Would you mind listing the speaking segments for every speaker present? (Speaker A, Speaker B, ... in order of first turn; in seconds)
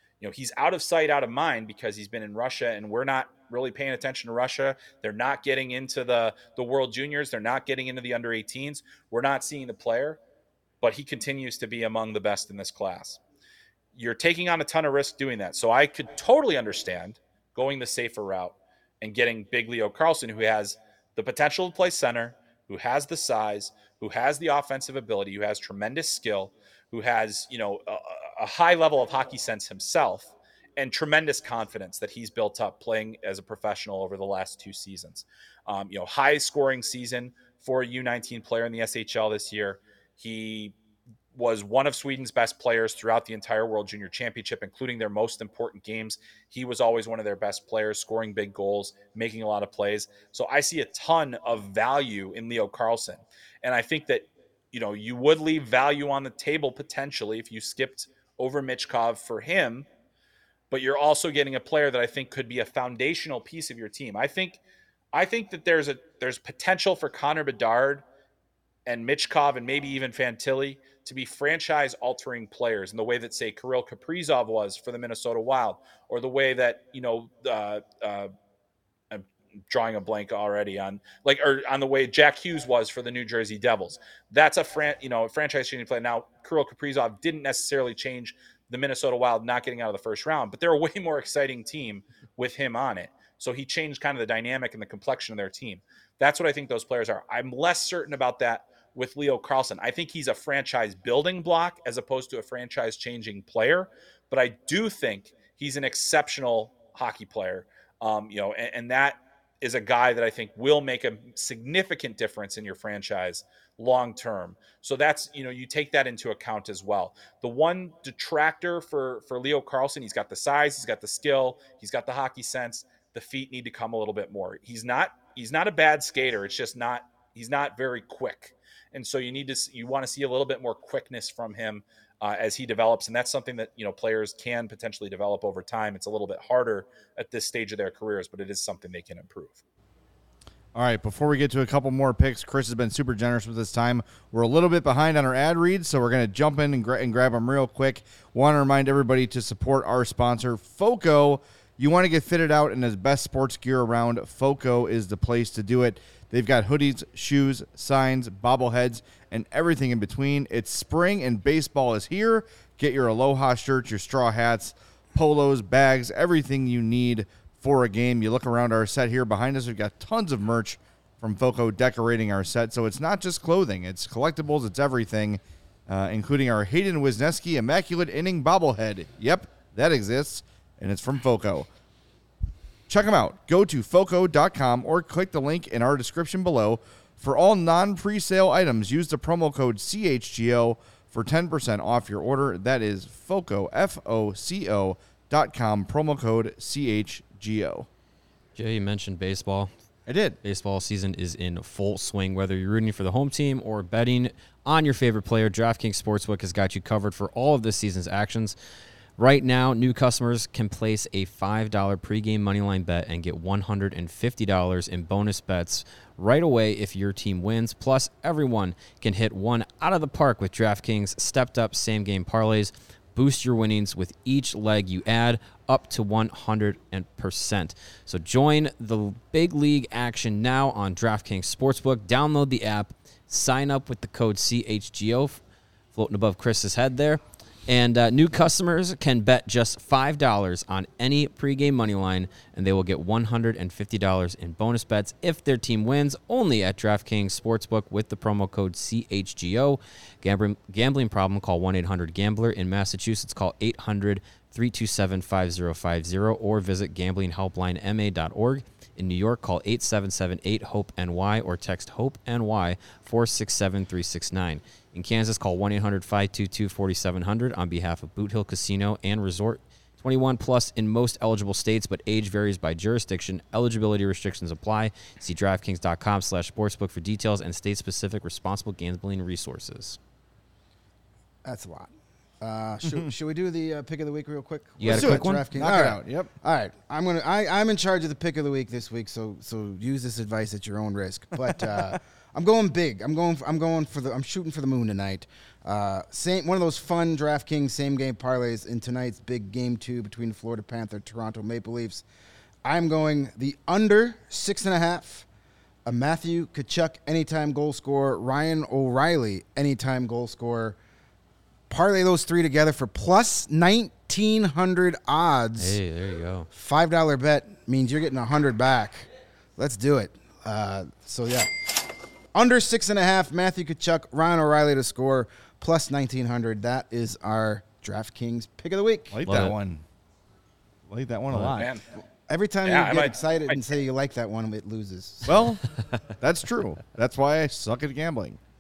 Speaker A: 0.2-10.2, 10.8-13.2, 13.9-40.7, 41.3-59.9, 60.7-64.6, 65.1-68.0, 68.9-78.3, 79.1-139.6, 331.6-331.9, 332.6-333.7
Speaker B: 140.7-181.7, 182.9-197.9, 200.1-200.4, 284.9-286.3, 329.1-329.8, 330.9-331.7, 335.3-335.6, 336.2-338.4
Speaker C: 198.6-199.7, 200.4-208.6, 209.2-235.4, 235.9-280.0, 284.8-285.4, 315.6-316.5, 329.3-329.6, 331.3-331.6
Speaker D: 281.4-302.1, 302.6-305.3, 305.9-310.8, 311.7-315.8, 316.5-321.8, 322.3-329.2, 332.3-335.4